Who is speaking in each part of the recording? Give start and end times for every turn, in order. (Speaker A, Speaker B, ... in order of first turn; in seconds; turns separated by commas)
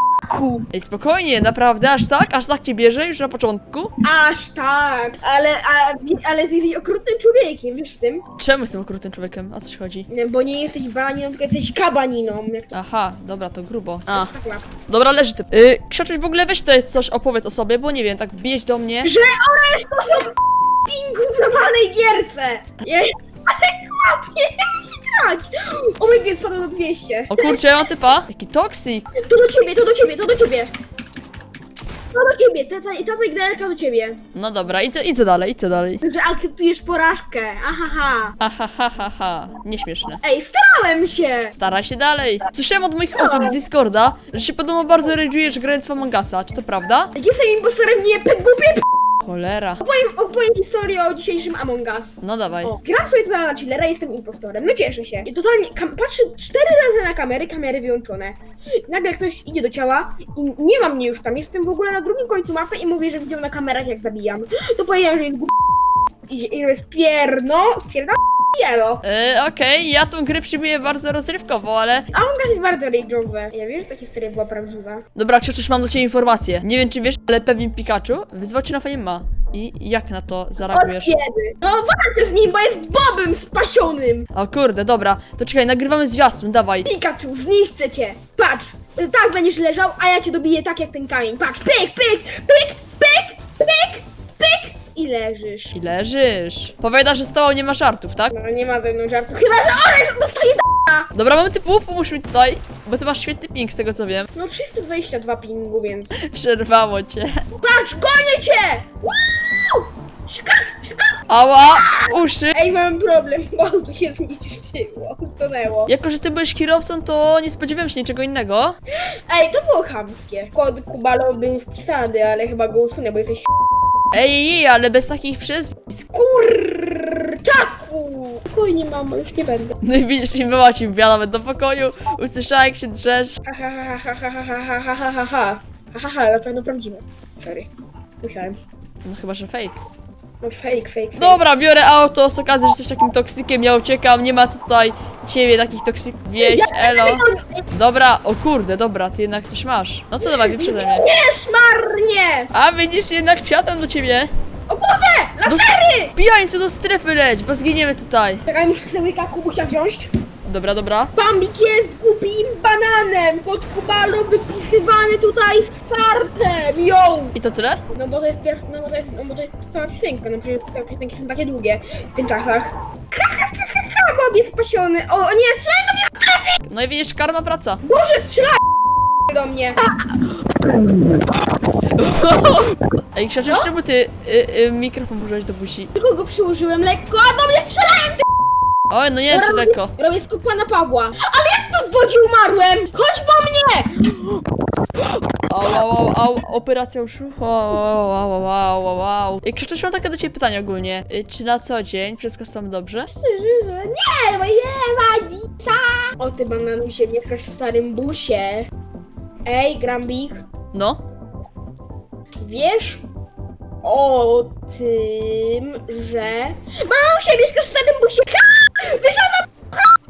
Speaker A: 0.3-0.7, Speaker B: 0.7-3.9, Speaker A: 4.0-8.3, Speaker B: 8.4-10.1, Speaker A: 10.1-12.7, Speaker B: 12.7-14.3, Speaker A: 14.1-14.7, Speaker B: 14.9-19.1, Speaker A: 19.0-27.7, Speaker B: 27.3-29.1, Speaker A: 29.1-30.7, Speaker A: 32.1-34.2, Speaker B: 34.3-36.0, Speaker A: 36.0-38.4, Speaker B: 38.4-40.2, Speaker A: 40.2-41.5, Speaker B: 41.6-47.1, Speaker A: 43.1-43.6, Speaker A: 47.1-48.9, Speaker B: 49.2-49.8, Speaker A: 49.8-65.5, Speaker B: 52.2-52.7, Speaker A: 66.3-69.0, Speaker B: 69.0-72.1, Speaker A: 72.1-75.0, Speaker B: 75.2-81.2, Speaker A: 80.6-84.3, Speaker B: 84.3-86.9, Speaker A: 86.8-95.8, Speaker B: 95.7-98.3, Speaker A: 98.3-101.1, Speaker B: 101.1-104.3, Speaker A: 104.3-106.1, Speaker B: 106.2-107.4, Speaker A: 107.6-115.9, Speaker B: 111.3-112.6, Speaker B: 115.9-118.8, Speaker A: 118.9-123.5, Speaker B: 124.1-126.0, Speaker A: 126.1-129.8, Speaker B: 129.8-133.4, Speaker A: 133.4-137.7, Speaker A: 138.2-138.6, Speaker B: 139.0-139.8, Speaker A: 140.4-141.4, Speaker B: 141.2-151.1, Speaker A: 146.4-147.6, Speaker A: 150.2-152.5, Speaker B: 152.5-154.3, Speaker A: 154.7-156.1, Speaker B: 155.5-158.4, Speaker A: 158.5-160.1, Speaker B: 160.4-161.1, Speaker A: 161.2-167.4, Speaker B: 167.3-167.8, Speaker A: 167.9-176.6, Speaker B: 176.7-177.8, Speaker A: 177.8-178.6, Speaker A: 179.3-180.3, Speaker B: 182.0-185.9, Speaker A: 185.9-188.2, Speaker B: 188.9-189.9, Speaker A: 189.3-194.4, Speaker B: 195.5-203.1, Speaker A: 203.1-208.7, Speaker A: 209.4-210.4, Speaker B: 210.7-211.0, Speaker A: 212.4-213.1, Speaker A: 213.8-219.9